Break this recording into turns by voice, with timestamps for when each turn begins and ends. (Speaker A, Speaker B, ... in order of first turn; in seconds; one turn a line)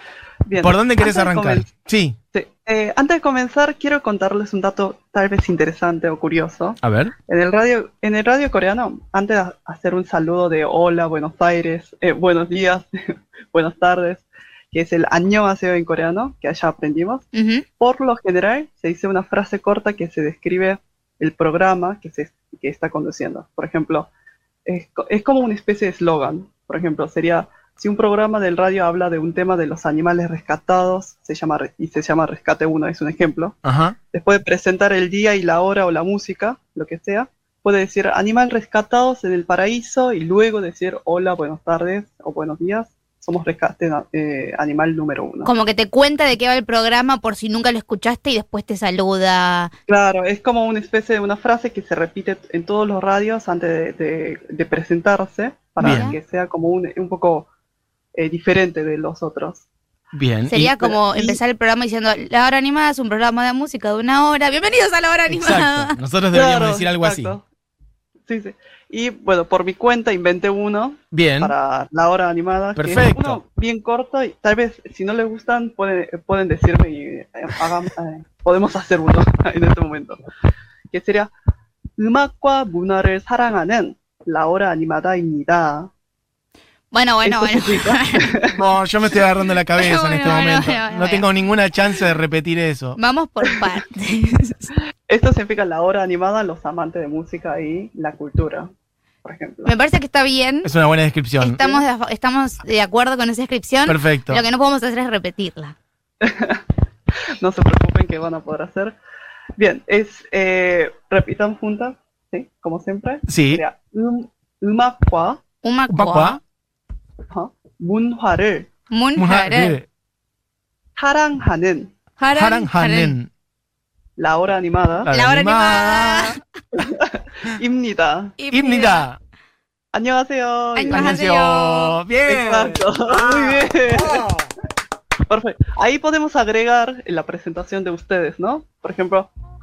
Speaker A: 0.5-1.7
Speaker B: 0.6-2.2
Speaker A: 2.3-17.3
Speaker B: 6.8-7.1
Speaker C: 17.3-17.7
Speaker A: 17.8-24.1
Speaker A: 24.7-33.6
Speaker B: 33.6-34.0
Speaker A: 34.1-45.5
Speaker C: 45.4-49.7
Speaker A: 49.9-57.5
Speaker C: 55.8-56.2
Speaker B: 55.8-56.2
Speaker A: 58.1-59.6
Speaker B: 60.1-60.7
Speaker C: 60.5-66.0
Speaker A: 60.7-61.4
Speaker B: 65.3-67.3
Speaker A: 66.3-67.4
Speaker A: 68.3-80.2
Speaker B: 71.1-71.5
Speaker B: 72.8-73.4
Speaker A: 80.9-81.3
Speaker A: 82.0-85.9
Speaker C: 86.9-88.3
Speaker A: 87.2-88.6
Speaker B: 88.5-93.0
Speaker C: 89.8-91.3
Speaker C: 93.0-94.7
Speaker A: 95.1-98.7
Speaker A: 99.2-99.8
Speaker C: 99.7-100.7
Speaker B: 100.6-101.6
Speaker C: 101.4-105.7
Speaker B: 103.9-104.5
Speaker A: 106.2-106.6
Speaker A: 107.4-109.0
Speaker A: 109.6-115.4
Speaker B: 113.3-113.6
Speaker C: 115.6-116.4
Speaker B: 115.9-116.4
Speaker A: 117.3-118.7
Speaker C: 118.9-119.8
Speaker B: 119.2-119.9
Speaker A: 121.0-121.9
Speaker C: 122.2-123.2
Speaker B: 122.3-123.3
Speaker A: 124.2-125.1
Speaker B: 125.1-126.4
Speaker C: 125.1-126.4
Speaker A: 126.7-128.4
Speaker C: 128.4-129.1
Speaker B: 128.5-129.2
Speaker A: 129.9-131.2
Speaker C: 130.8-132.0
Speaker B: 130.9-134.5
Speaker A: 132.3-134.3
Speaker A: 135.3-139.3